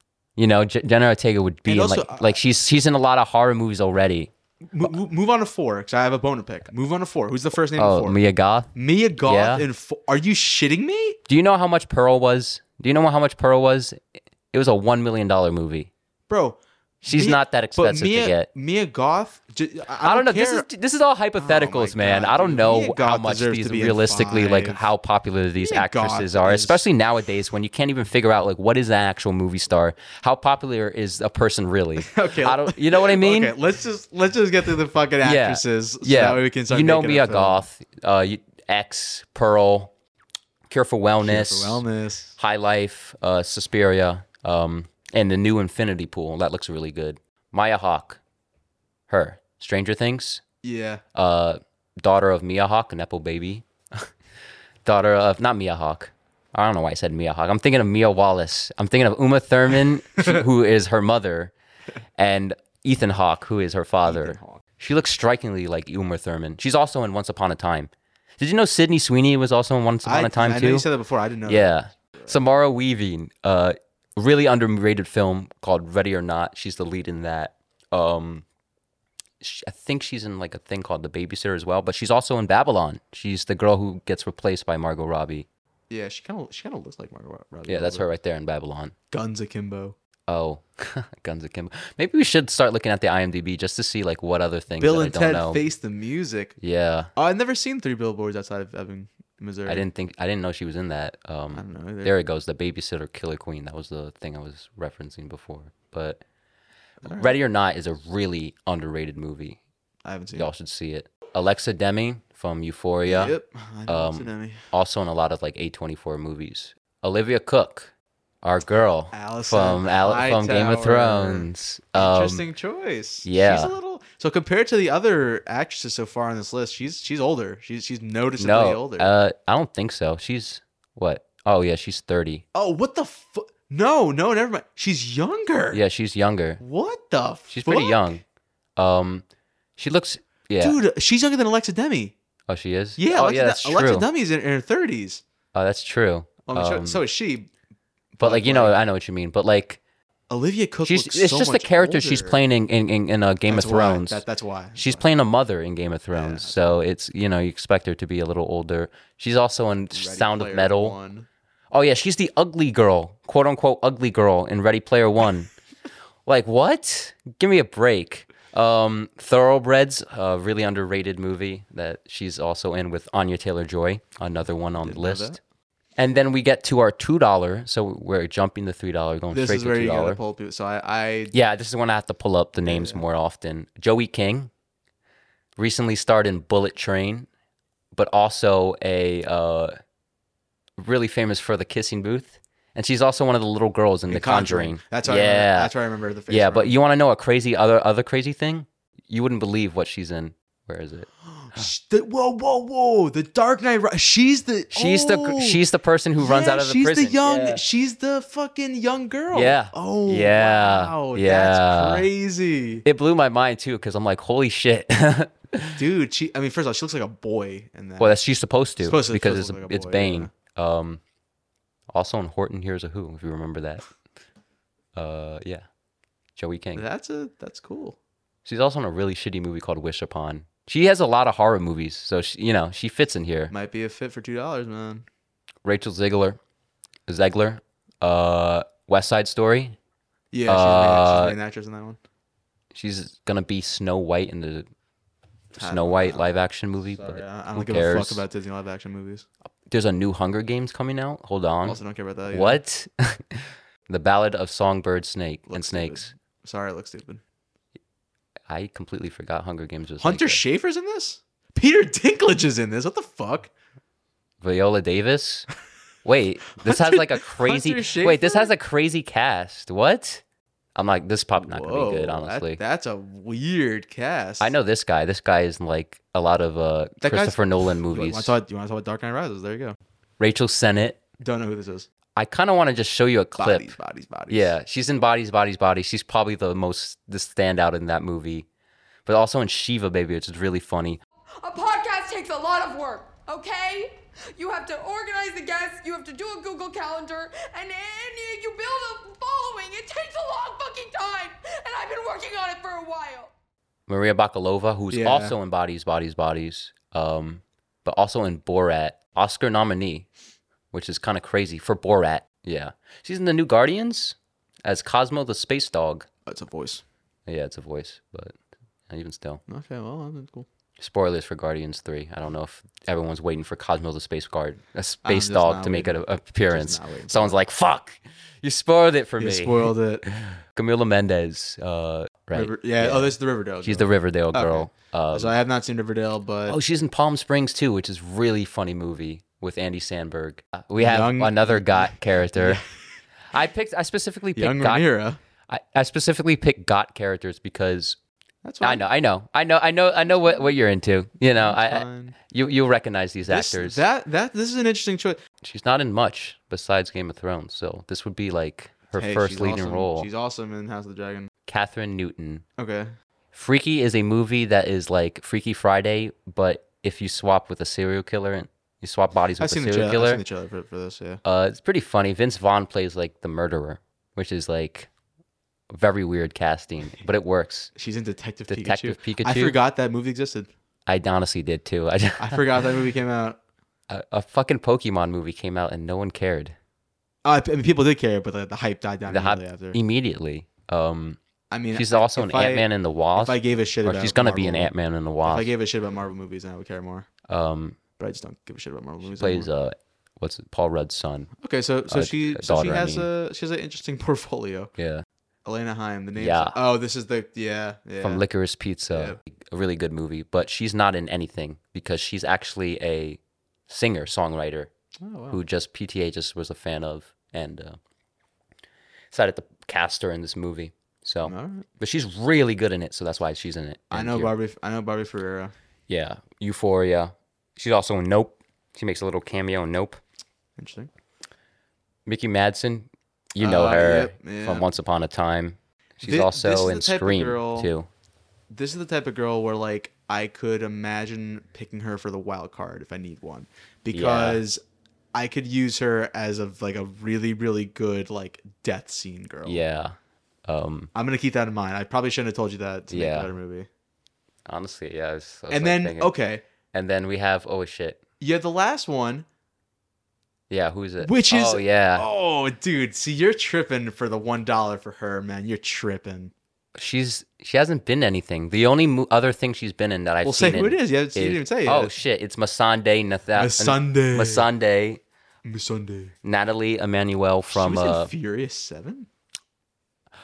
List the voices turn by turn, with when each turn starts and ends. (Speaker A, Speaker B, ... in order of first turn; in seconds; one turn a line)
Speaker A: 0.4-4.3
Speaker B: 1.6-2.4
Speaker B: 4.7-8.2
Speaker A: 7.7-9.7
Speaker B: 8.7-11.2
Speaker A: 11.3-14.0
Speaker A: 14.5-15.9
Speaker B: 16.3-20.7
Speaker A: 17.0-18.5
Speaker A: 20.0-33.5
Speaker B: 21.4-24.9
Speaker B: 25.6-26.9
Speaker B: 32.0-37.6
Speaker A: 35.2-39.9
Speaker A: 40.7-41.8
Speaker B: 41.2-42.4
Speaker A: 42.4-48.2
Speaker A: 49.1-50.4
Speaker B: 50.6-51.0
Speaker A: 51.1-54.1
Speaker A: 54.8-61.5
Speaker B: 60.2-60.4
Speaker A: 62.2-70.9
Speaker B: 64.0-64.6
Speaker B: 70.0-72.4
Speaker A: 71.5-78.4
Speaker A: 79.4-85.5
Speaker B: 85.9-88.1
Speaker A: 87.7-88.9
Speaker B: 89.1-89.9
Speaker A: 90.3-95.6
Speaker B: 94.8-96.5
Speaker A: 96.6-97.1
Speaker B: 97.2-99.8
Speaker A: 99.7-106.2
Speaker B: 101.5-102.1
Speaker B: 107.0-107.3
Speaker A: 107.1-109.6
Speaker B: 110.0-110.5
Speaker A: 110.3-117.9
Speaker B: 113.0-114.6
Speaker A: 118.4-122.5
Speaker B: 119.1-129.1
Speaker A: 123.2-123.7
Speaker A: 128.4-132.4
Speaker B: 132.5-135.8
Speaker A: 135.7-136.6
Speaker B: 136.6-138.1
Speaker A: 137.5-138.2
Speaker A: 138.8-139.2
Speaker A: 139.8-140.8
Speaker B: 140.6-142.1
Speaker A: 142.5-144.1
Speaker B: 143.0-145.2
Speaker A: 145.5-147.0
Speaker B: 146.4-147.5
Speaker B: 148.2-148.8
Speaker A: 148.2-149.8
Speaker B: 150.3-152.4
Speaker A: 150.8-154.2
Speaker B: 153.5-155.1
Speaker A: 154.7-160.9
Speaker B: 156.1-156.7
Speaker B: 159.9-161.3
Speaker A: 161.7-165.5
Speaker A: 166.2-175.4
Speaker B: 174.8-175.4
Speaker A: 176.0-180.2
Speaker B: 179.3-181.3
Speaker A: 181.3-184.5
Speaker B: 182.6-183.0
Speaker A: 185.6-187.3
Speaker A: 187.9-189.8
Speaker A: 190.8-195.7
Speaker B: 194.1-196.7
Speaker A: 196.3-201.7
Speaker B: 201.2-205.6
Speaker A: 204.7-207.6
Speaker B: 206.2-212.8
Speaker A: 209.3-212.1
Speaker A: 212.8-215.8
Speaker B: 215.8-218.2
Speaker A: 218.0-221.0
Speaker B: 218.8-220.3
Speaker A: 221.9-223.8
Speaker A: 224.9-225.6
Speaker A: 226.3-226.8
Speaker B: 226.7-228.0
Speaker A: 228.4-233.5
Speaker B: 233.5-235.1
Speaker A: 235.6-236.4
Speaker A: 237.1-239.8
Speaker B: 240.3-242.0
Speaker A: 240.5-241.3
Speaker A: 242.7-244.7
Speaker A: 245.5-248.2
Speaker B: 245.5-246.3
Speaker B: 246.8-249.2
Speaker A: 249.7-256.1
Speaker B: 251.6-252.6
Speaker B: 255.5-257.2
Speaker A: 258.5-260.4
Speaker B: 260.0-263.5
Speaker A: 264.4-265.5
Speaker A: 266.0-270.2
Speaker B: 266.6-268.5
Speaker A: 270.8-272.6
Speaker B: 271.4-274.5
Speaker A: 274.4-278.4
Speaker B: 277.0-279.8
Speaker A: 280.2-281.0
Speaker B: 281.2-281.9
Speaker A: 282.1-283.8
Speaker B: 283.4-284.6
Speaker A: 284.3-288.4
Speaker A: 289.1-291.0
Speaker C: 291.4-303.3
Speaker A: 303.9-310.1
Speaker B: 304.9-305.4
Speaker A: 310.7-316.1
Speaker B: 316.2-316.8
Speaker A: 317.3-318.3
Speaker A: 318.9-319.4
Speaker B: 319.5-320.5
Speaker A: 320.8-335.3
Speaker B: 325.0-327.4
Speaker B: 329.2-330.0
Speaker B: 332.3-336.6
Speaker A: 336.5-342.6
Speaker B: 340.8-342.7
Speaker A: 343.3-344.9
Speaker B: 344.4-345.2
Speaker A: 345.5-348.0
Speaker B: 348.4-348.8
Speaker A: 348.6-353.8
Speaker B: 351.3-352.1
Speaker B: 353.3-355.2
Speaker A: 355.4-360.1
Speaker B: 359.0-361.3
Speaker A: 361.5-362.4
Speaker B: 362.6-362.9
Speaker A: 363.3-370.2
Speaker B: 369.4-371.2
Speaker A: 371.2-374.9
Speaker A: 375.7-377.7
Speaker B: 377.7-380.5
Speaker A: 378.5-379.6
Speaker A: 380.9-382.4
Speaker B: 382.2-383.4
Speaker A: 383.9-386.6
Speaker B: 387.2-389.8
Speaker A: 389.1-391.2
Speaker B: 391.5-394.7
Speaker A: 391.7-395.5
Speaker B: 395.2-397.1
Speaker A: 397.3-397.8
Speaker B: 398.0-399.5
Speaker A: 399.0-401.3
Speaker B: 401.4-404.7
Speaker A: 401.9-403.1
Speaker A: 404.8-405.0
Speaker B: 405.4-408.2
Speaker A: 406.2-406.6
Speaker A: 408.0-414.7
Speaker B: 408.9-409.2
Speaker B: 415.0-415.4
Speaker A: 415.3-417.8
Speaker A: 419.1-424.3
Speaker B: 421.2-421.7
Speaker B: 423.9-425.5
Speaker A: 425.9-430.0
Speaker B: 430.6-430.9
Speaker A: 432.1-437.9
Speaker B: 433.4-434.7
Speaker B: 436.0-437.7
Speaker B: 438.5-444.6
Speaker A: 443.9-444.4
Speaker B: 445.1-449.6
Speaker A: 449.4-450.9
Speaker B: 450.9-453.7
Speaker A: 452.9-453.3
Speaker A: 454.5-456.1
Speaker B: 455.5-456.4
Speaker A: 456.7-458.0
Speaker B: 458.2-459.2
Speaker A: 460.5-462.1
Speaker B: 461.0-466.3
Speaker A: 466.7-475.0
Speaker B: 470.2-471.9
Speaker B: 473.3-474.5
Speaker B: 475.4-476.1
Speaker A: 476.2-478.1
Speaker B: 477.5-479.1